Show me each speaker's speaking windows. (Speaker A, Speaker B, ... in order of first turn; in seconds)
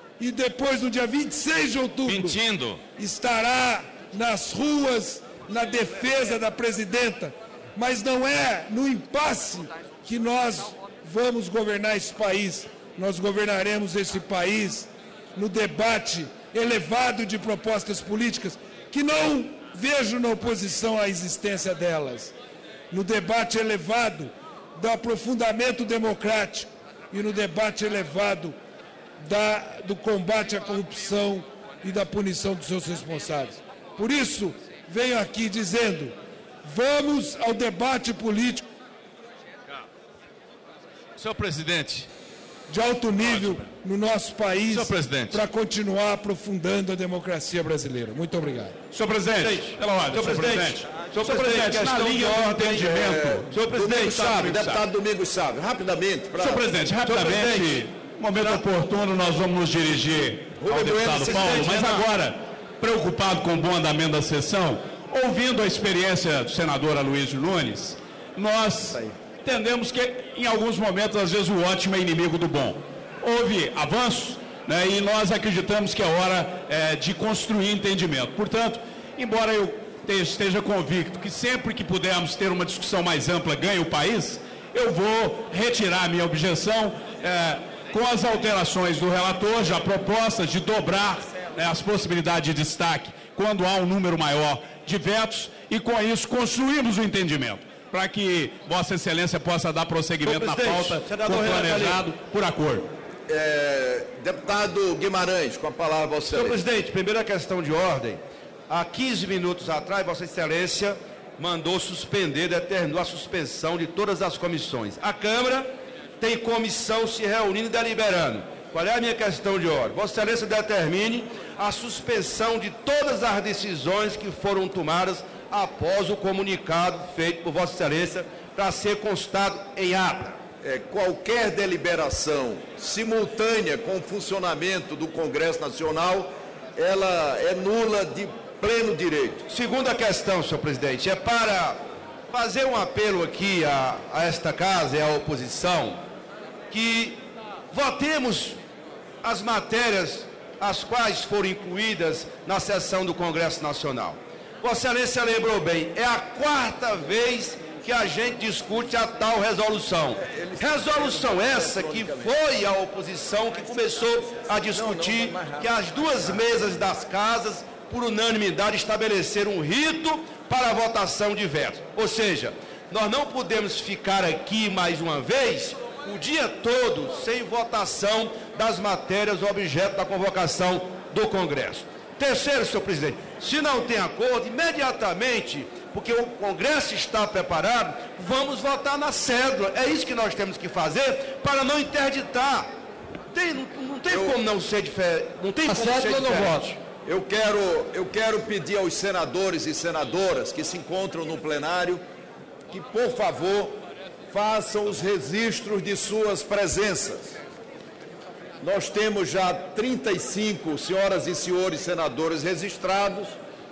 Speaker A: 0.2-2.4, 3.0-22.3, 22.9-28.5, 29.2-38.6, 42.7-48.8
Speaker B: 2.2-2.6, 41.2-42.1, 44.8-45.4, 49.4-52.0, 57.0-57.7, 58.4-58.6, 100.2-102.0, 106.3-130.4, 139.5-146.0, 146.7-147.2, 147.7-148.6, 149.2-192.7, 193.3-196.8
Speaker C: 48.9-54.8, 56.4-102.9
Speaker D: 52.0-56.7, 57.4-57.7, 60.6-62.0, 103.3-106.6, 130.6-139.4, 160.2-162.3, 164.7-166.4, 194.1-194.4, 197.0-202.0, 202.7-203.8, 204.3-207.4, 208.6-213.3